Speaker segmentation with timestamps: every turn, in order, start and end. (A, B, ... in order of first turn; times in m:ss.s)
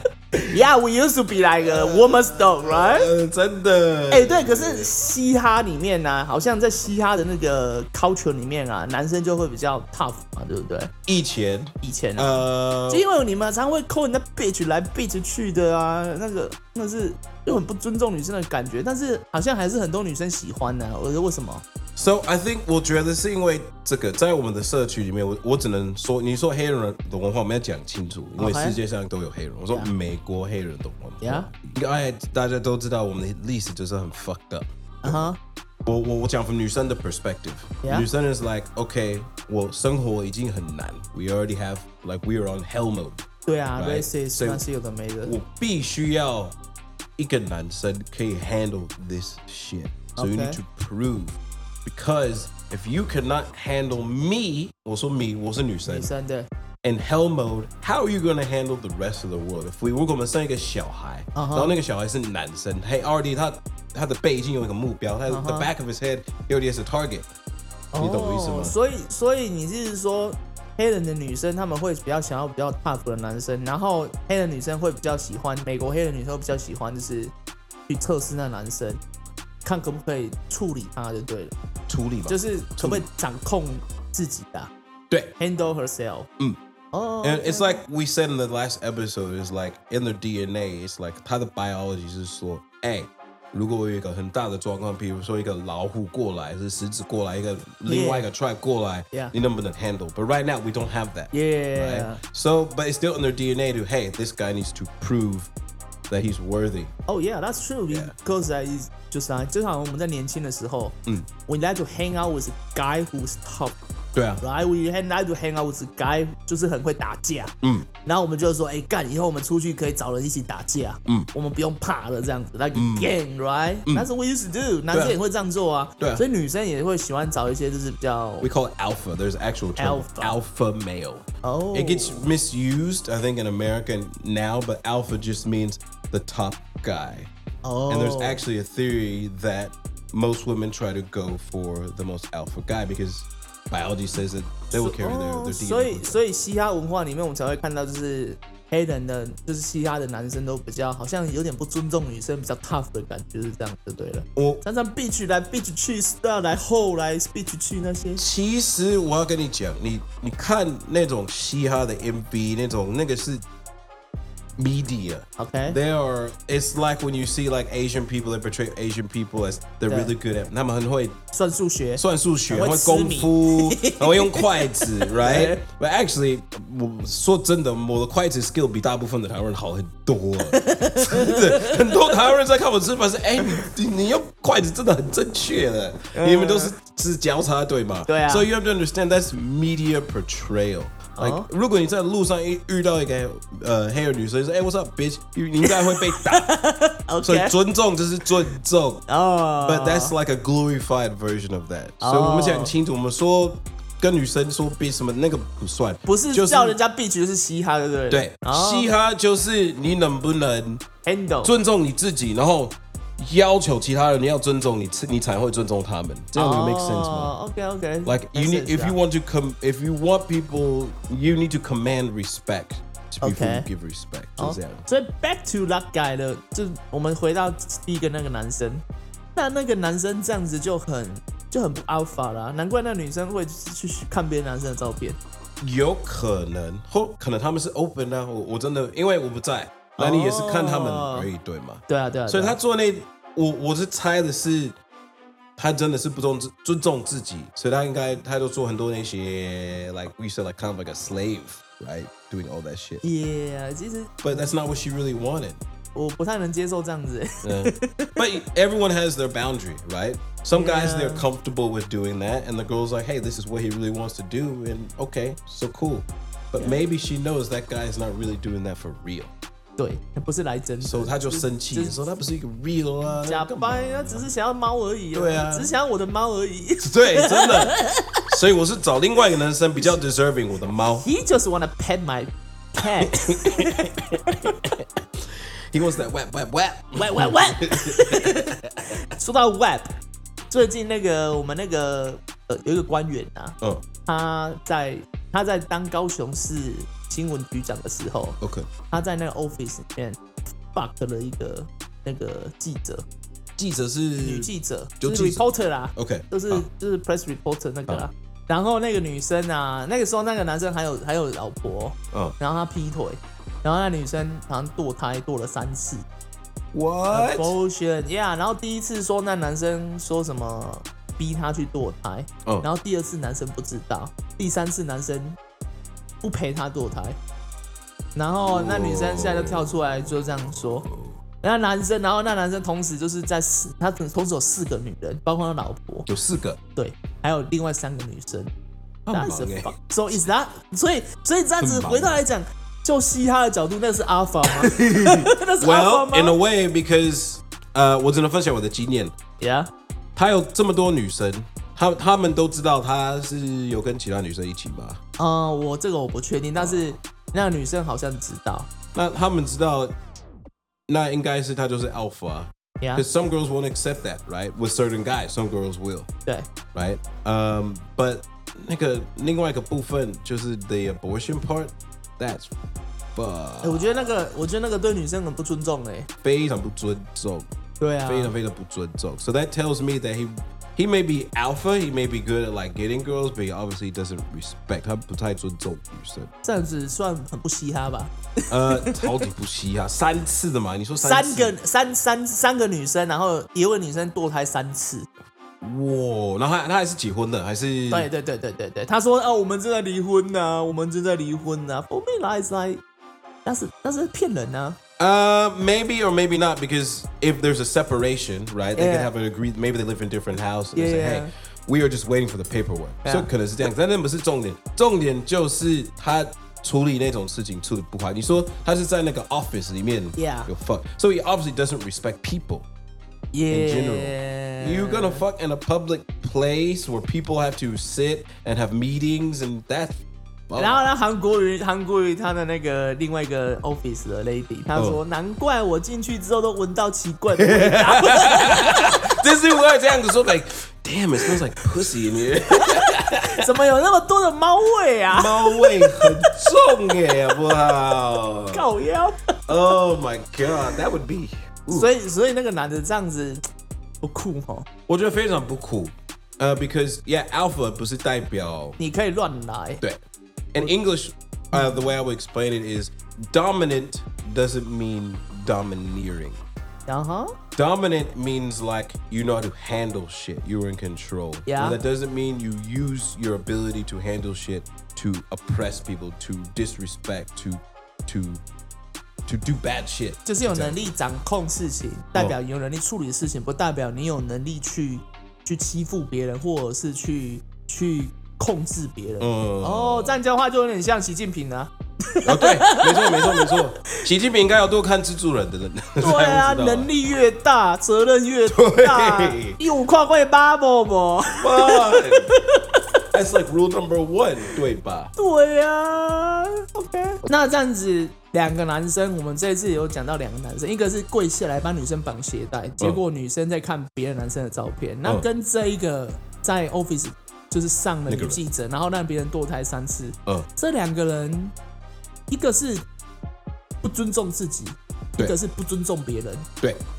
0:00.4-0:03.1 A
0:01.6-0:04.9 B
0:04.1-0:10.9 A
0:11.1-0:13.0 B
0:11.8-0:21.6 A
0:22.0-0:35.3 B
0:28.4-0:28.8 A
0:31.2-0:31.5 A
0:35.0-0:35.4 A
0:35.8-0:43.3 B
0:43.5-0:45.4 A
0:43.8-0:44.6 B
0:45.2-0:46.6 B
0:47.2-0:56.1 B
0:50.2-0:50.6 A
0:55.9-0:56.5 A
0:56.8-1:07.3 B
1:01.4-1:01.8 A
1:05.3-1:05.7 A
1:07.9-1:17.3 A
1:08.0-1:08.8 B
1:17.9-1:19.0 A
1:19.6-1:21.5 A
1:21.9-1:23.1 B
1:22.3-1:24.7 A
1:25.4-1:26.3 A
1:26.9-1:27.8 A
1:27.2-1:45.5 B
1:37.9-1:38.3 A
1:41.3-1:42.2 A
1:46.1-1:46.9 B
1:47.1-1:53.8 A
1:54.2-1:54.4 B
1:54.4-1:57.5 A
1:57.6-1:57.9 B
1:58.0-2:08.5 A
2:02.8-2:03.1 B
2:04.9-2:05.2 B
2:06.0-2:06.2 B
2:08.4-2:17.3 B
2:09.8-2:10.4 A
2:11.4-2:12.2 A
2:17.6-2:18.4 A
2:17.9-2:26.2 B
2:24.7-2:38.2 A
2:34.4-2:34.6 B
2:38.2-2:43.4 B
2:44.6-2:51.2 B
2:45.4-2:45.8 A
2:51.3-2:55.6 A
2:52.0-3:16.5 B
3:00.5-3:02.0 A
3:06.1-3:06.8 A
3:08.1-3:08.5 A
3:11.2-3:11.5 A
3:15.6-3:17.6 A
3:17.2-3:19.0 B
3:19.1-3:20.1 A
3:19.6-3:26.8 B
3:22.0-3:22.7 A
3:26.1-3:28.9 A
3:28.1-3:30.8 B
3:31.0-3:31.5 A
3:31.4-3:37.3 B
3:36.4-3:39.0 A
3:38.0-3:44.8 B
3:43.2-3:43.7 A
3:44.4-3:48.8 A
3:49.4-3:55.2 A
3:55.6-4:04.8 B
4:00.0-4:01.3 A
4:01.9-4:02.6 A
4:05.6-4:13.0 B
4:13.0-4:14.5 A
4:14.2-4:15.6 B
4:16.0-4:18.3 A
4:17.4-4:29.3 B
4:20.5-4:21.3 A
4:29.8-4:32.0 A
4:30.8-4:34.3 B
4:33.2-4:38.2 A
4:35.1-4:35.7 B
4:36.8-4:41.1 B
4:41.0-4:44.6 A
4:43.0-4:48.9 B
4:47.0-4:49.9 A
4:50.5-4:58.4 A
4:58.4-4:58.7 B
4:58.9-5:03.0 A
5:03.6-5:06.6 B
5:04.2-5:16.0 A
5:16.7-5:17.6 B
5:17.1-5:25.4 A
5:26.2-5:27.2 A
5:28.2-5:30.9 A
5:28.4-5:31.2 B
5:31.4-5:36.1 A
5:36.1-5:36.6 B
5:36.8-5:38.5 A
5:39.1-5:39.7 B
5:39.1-5:46.4 A
5:41.6-5:42.2 B
5:44.5-5:49.2 B
5:49.4-5:49.7 A
5:50.2-5:55.0 B
5:55.2-5:58.7 A
5:59.0-6:00.0 B
6:00.9-6:06.1 B
6:06.7-6:12.5 B
6:13.2-6:14.1 B
6:13.6-6:16.1 A
6:16.2-6:17.5 B
6:17.8-6:18.3 A
6:18.0-6:26.3 B
6:26.4-6:29.2 A
6:28.5-6:31.6 B
6:31.0-6:35.1 A
6:35.6-6:38.1 B
6:37.9-6:42.8 A
6:43.4-6:44.8 A
6:45.0-7:02.7 B
6:48.8-6:49.1 A
6:50.8-6:51.3 A
7:00.2-7:00.5 A
7:03.3-7:05.2 A
7:03.5-7:10.9 B
7:10.6-7:19.0 A
7:14.8-7:15.0 B
7:17.4-7:23.4 B
7:22.6-7:26.3 A
7:25.1-7:28.6 B
7:28.5-7:29.3 A
7:29.5-7:31.9 B
7:31.7-7:33.4 A
7:34.0-7:34.7 A
7:34.9-7:38.8 B
7:38.8-7:39.8 A
7:40.5-7:46.4 B
7:41.5-7:41.8 A
7:46.9-7:47.3 A
7:47.6-7:58.4 B
7:51.5-7:51.8 A
7:59.3-8:00.8 B
8:00.2-8:13.6 A
8:09.2-8:10.2 B
8:12.2-8:16.9 B
8:16.0-8:22.8 A
8:18.5-8:19.6 B
8:21.3-8:22.3 B
8:23.1-8:25.1 B
8:25.2-8:41.5 A
8:38.1-8:38.4 B
8:42.3-8:42.8 A
8:43.8-8:46.5 A